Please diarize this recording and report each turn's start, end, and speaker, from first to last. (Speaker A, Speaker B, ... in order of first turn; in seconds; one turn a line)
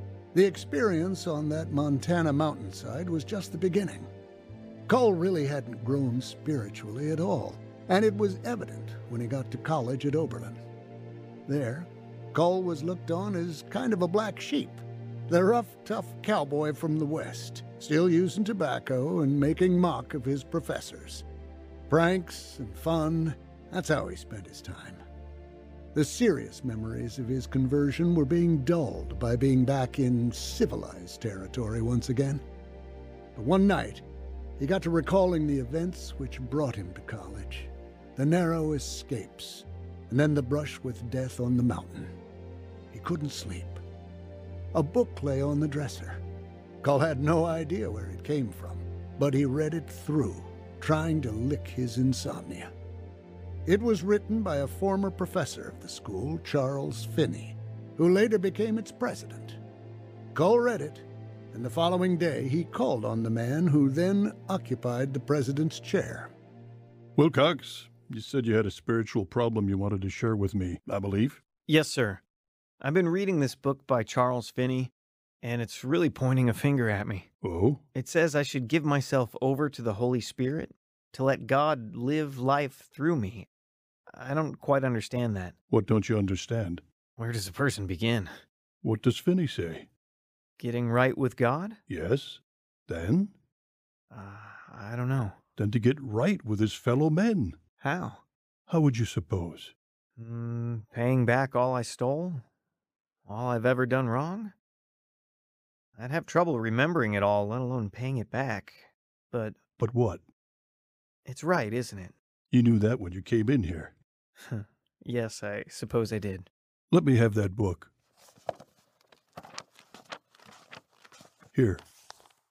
Speaker A: 0.3-4.1
Speaker A: 4.9-10.6
Speaker A: 11.5-21.3
Speaker A: 21.9-25.0
Speaker A: 25.9-32.4
Speaker A: 33.4-34.0
Speaker A: 34.6-42.1
Speaker A: 42.9-43.8
Speaker A: 44.7-46.2
Speaker A: 46.8-52.7
Speaker A: 53.7-59.6
Speaker A: 60.3-66.3
Speaker B: 67.2-71.4
Speaker C: 71.7-72.2
Speaker C: 72.8-74.9
Speaker C: 75.4-77.3
Speaker B: 77.4-77.8
Speaker C: 77.9-83.5
Speaker C: 84.1-85.5
Speaker B: 85.7-86.8
Speaker C: 87.2-88.4
Speaker B: 88.8-89.9
Speaker C: 90.6-91.8
Speaker B: 91.9-93.3
Speaker C: 94.1-95.4
Speaker B: 95.6-97.6
Speaker C: 97.8-98.2
Speaker B: 98.7-99.7
Speaker C: 100.2-102.4
Speaker C: 103.3-104.5
Speaker C: 106.0-109.6
Speaker B: 109.8-110.2
Speaker C: 111.3-112.2
Speaker B: 112.5-114.0
Speaker C: 114.4-116.5
Speaker B: 116.9-117.9
Speaker B: 121.5-121.8